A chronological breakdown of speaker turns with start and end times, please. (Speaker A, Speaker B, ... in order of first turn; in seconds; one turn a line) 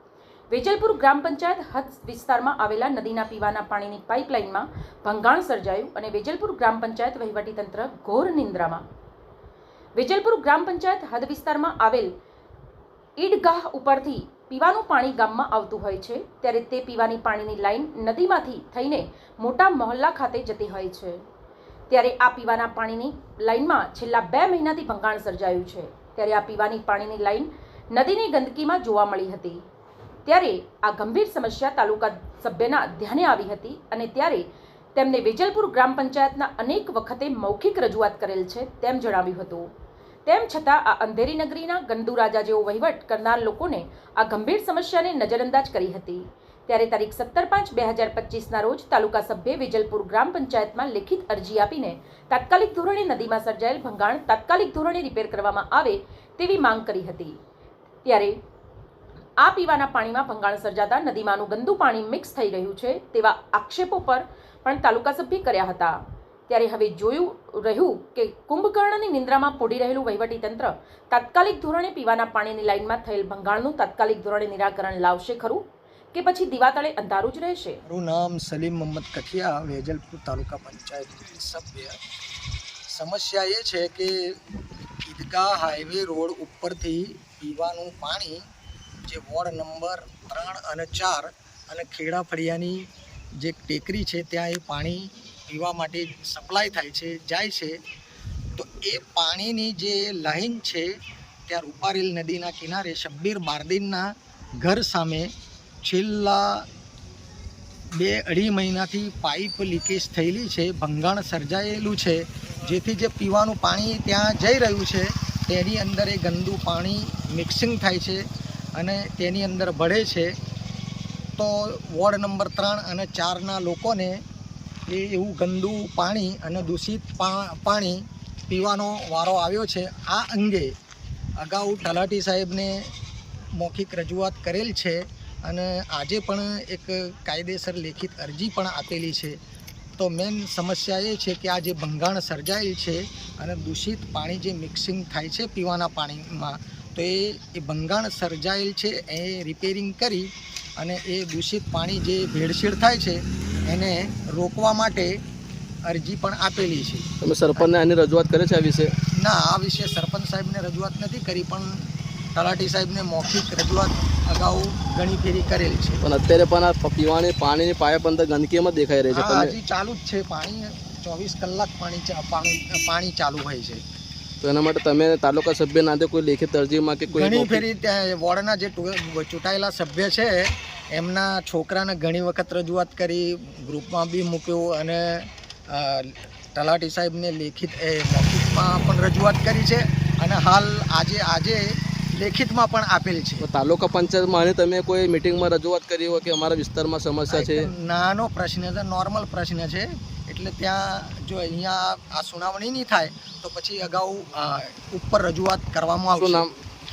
Speaker A: 0.5-8.8
Speaker A: 9.9-12.1
Speaker A: 13.2-21.2
Speaker A: 21.9-29.6
Speaker A: 30.2-39.7
Speaker A: 40.2-57.4
Speaker A: 58.0-58.4
Speaker A: 59.4-77.8
Speaker B: 77.9-82.0
Speaker B: 82.9-84.4
Speaker B: 85.0-88.4
Speaker B: 89.0-92.8
Speaker B: 93.3-97.8
Speaker B: 98.5-100.9
Speaker B: 101.5-104.1
Speaker B: 104.6-105.3
Speaker B: 105.8-106.6
Speaker B: 107.9-118.2
Speaker B: 118.7-120.3
Speaker B: 121.4-124.2
Speaker B: 124.9-130.7
Speaker B: 131.4-132.9
Speaker B: 133.5-139.4
Speaker B: 140.0-150.3
Speaker B: 150.8-155.2
Speaker B: 155.9-157.7
Speaker C: 157.2-158.9
Speaker B: 159.1-166.0
Speaker C: 166.0-169.5
Speaker B: 169.1-173.8
Speaker C: 174.4-177.6
Speaker B: 177.1-193.4
Speaker C: 193.4-197.7
Speaker B: 197.3-206.5
Speaker C: 206.2-206.5